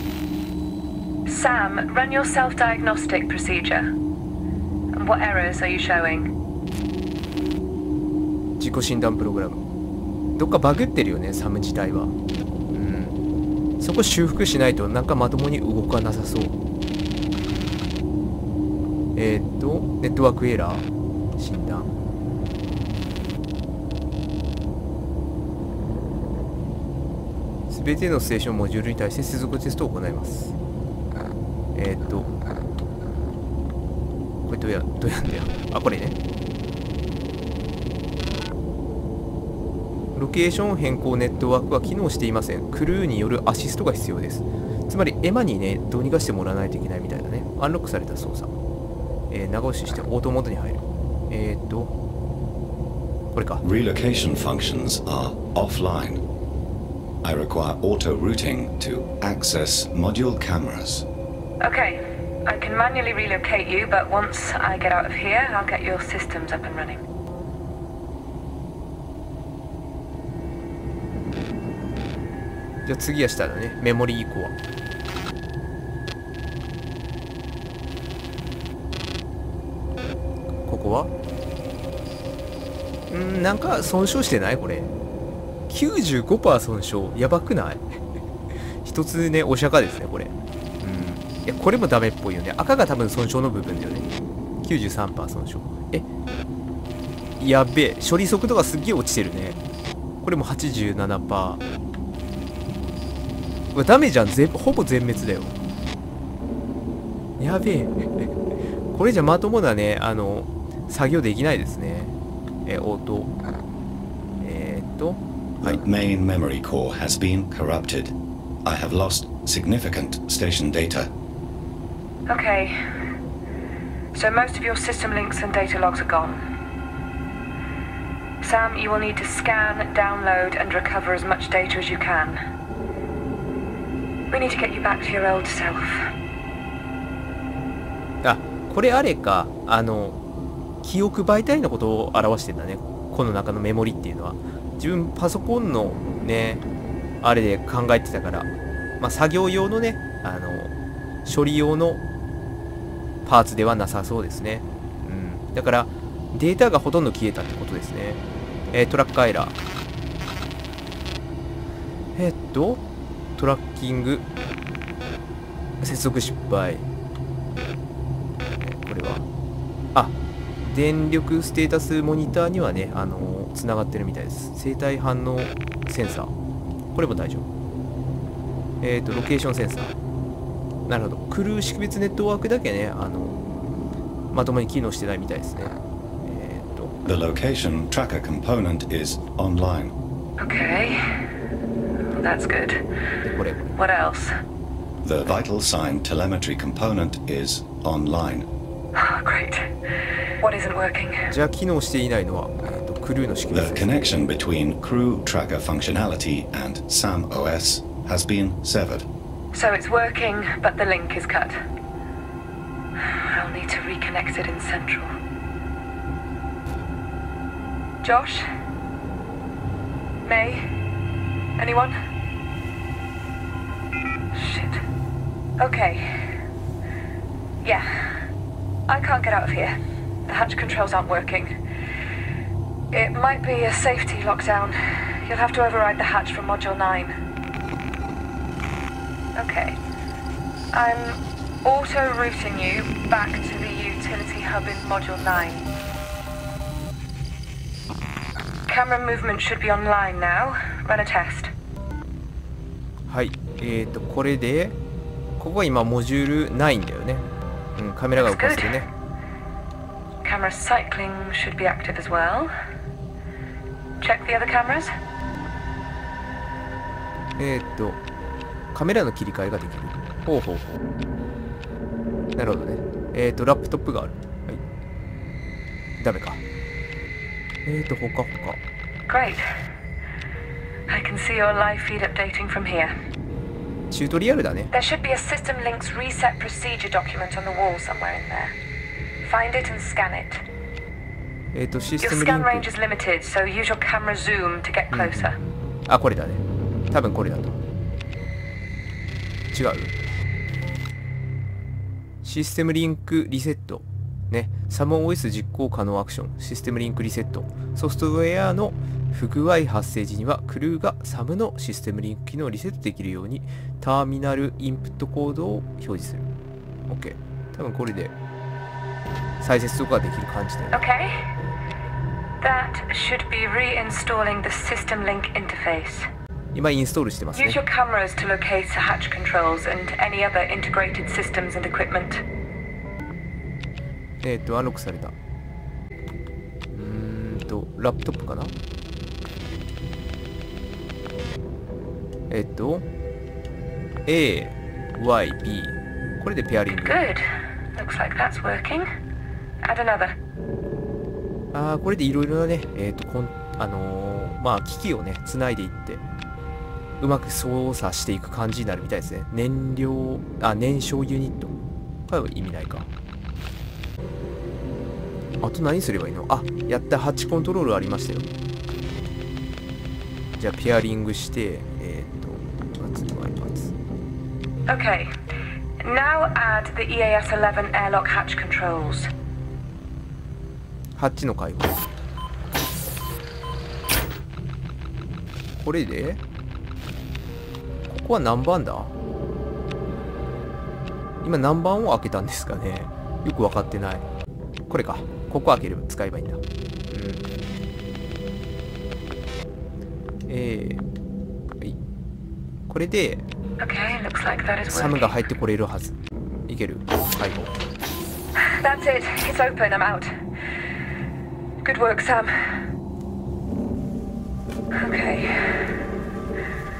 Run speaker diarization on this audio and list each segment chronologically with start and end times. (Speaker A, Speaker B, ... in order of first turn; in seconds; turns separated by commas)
Speaker A: 1.3-3.9, Speaker A: 4.9-6.3, Speaker B: 8.6-9.6, Speaker B: 10.4-12.1, Speaker B: 12.7-13.2, Speaker B: 13.8-16.6, Speaker B: 19.1-21.9, Speaker B: 27.7-30.6, Speaker B: 31.8-32.3, Speaker B: 34.4-36.2, Speaker B: 40.1-48.5, Speaker B: 49.3-51.9, Speaker B: 53.3-53.6, Speaker C: 53.6-56.2, Speaker C: 57.2-61.1, Speaker A: 61.6-67.0, Speaker B: 72.8-74.5, Speaker B: 80.7-81.1, Speaker B: 83.1-84.9, Speaker B: 85.7-88.0, Speaker B: 88.8-94.1, Speaker B: 94.6-96.1, Speaker B: 97.4-99.6, Speaker B: 100.2-101.6, Speaker B: 103.7-105.5, Speaker B: 107.4-112.1, Speaker B: 112.7-113.3, Speaker B: 114.4-115.8, Speaker C: 115.6-121.1, Speaker A: 122.3-122.8, Speaker A: 124.1-126.4, Speaker A: 128.4-132.4, Speaker A: 134.3-136.1, Speaker B: 138.2-140.2, Speaker B: 140.8-146.6, Speaker B: 147.2-150.7, Speaker B: 151.2-152.0, Speaker B: 153.2-159.6, Speaker B: 162.2-162.8, Speaker B: 163.4-164.3, Speaker B: 165.8-166.9, Speaker B: 168.6-169.3, Speaker B: 169.9-176.3, Speaker B: 176.9-177.5, Speaker B: 178.8-180.0, Speaker B: 180.9-183.4, Speaker B: 184.3-187.0, Speaker C: 187.1-190.0, Speaker A: 190.4-191.0, Speaker A: 192.1-192.8, Speaker B: 193.2-193.7, Speaker A: 193.8-194.3, Speaker C: 195.0-198.5, Speaker A: 198.9-199.7, Speaker A: 200.4-201.3, Speaker B: 201.3-204.0, Speaker C: 203.5-209.1, Speaker A: 209.5-211.6, Speaker A: 213.0-215.1, Speaker A: 218.0-218.4, Speaker A: 220.2-220.7, Speaker A: 221.6-221.9, Speaker A: 224.3-224.8, Speaker A: 225.6-226.2, Speaker A: 227.6-228.2, Speaker A: 228.9-231.6, Speaker A: 232.9-237.2, Speaker A: 239.4-239.8, Speaker A: 240.7-245.7, Speaker A: 248.7-251.5, Speaker B: 253.1-254.8, Speaker B: 255.4-258.9, Speaker A: 258.2-258.9, Speaker A: 260.2-262.5, Speaker A: 264.0-264.9, Speaker B: 267.4-268.0, Speaker B: 268.7-270.9, Speaker B: 272.4-274.6, Speaker B: 276.0-276.4, Speaker B: 277.6-278.6, Speaker A: 279.1-279.4, Speaker A: 280.9-282.9, Speaker B: 283.9-284.7, Speaker A: 284.7-288.6, Speaker A: 289.2-290.4, Speaker B: 291.5-292.7, Speaker A: 292.0-295.4, Speaker B: 294.9-297.6, Speaker B: 299.5-299.9, Speaker B: 302.2-316.3, Speaker B: 316.9-318.1, Speaker B: 319.4-320.8, Speaker A: 320.7-321.1, Speaker A: 322.4-326.1, Speaker B: 326.5-327.6, Speaker A: 327.4-332.2, Speaker B: 334.2-335.1, Speaker B: 336.7-338.5, Speaker B: 342.3-342.9, Speaker B: 344.1-347.0, Speaker A: 346.8-348.9, Speaker A: 349.6-350.1, Speaker B: 351.5-356.0, Speaker B: 357.0-361.5, Speaker B: 362.1-362.9, Speaker B: 365.4-368.3, Speaker B: 370.4-373.7, Speaker A: 374.7-375.1, Speaker A: 375.8-379.1, Speaker B: 381.0-381.9, Speaker B: 385.6-386.2, Speaker B: 387.9-388.9, Speaker B: 391.2-394.1, Speaker B: 394.7-397.2, Speaker B: 400.3-400.8, Speaker B: 402.7-403.2, Speaker A: 403.6-405.1, Speaker B: 404.7-405.9, Speaker B: 406.5-407.5, Speaker A: 408.4-410.1, Speaker A: 411.6-412.3, Speaker A: 414.8-415.7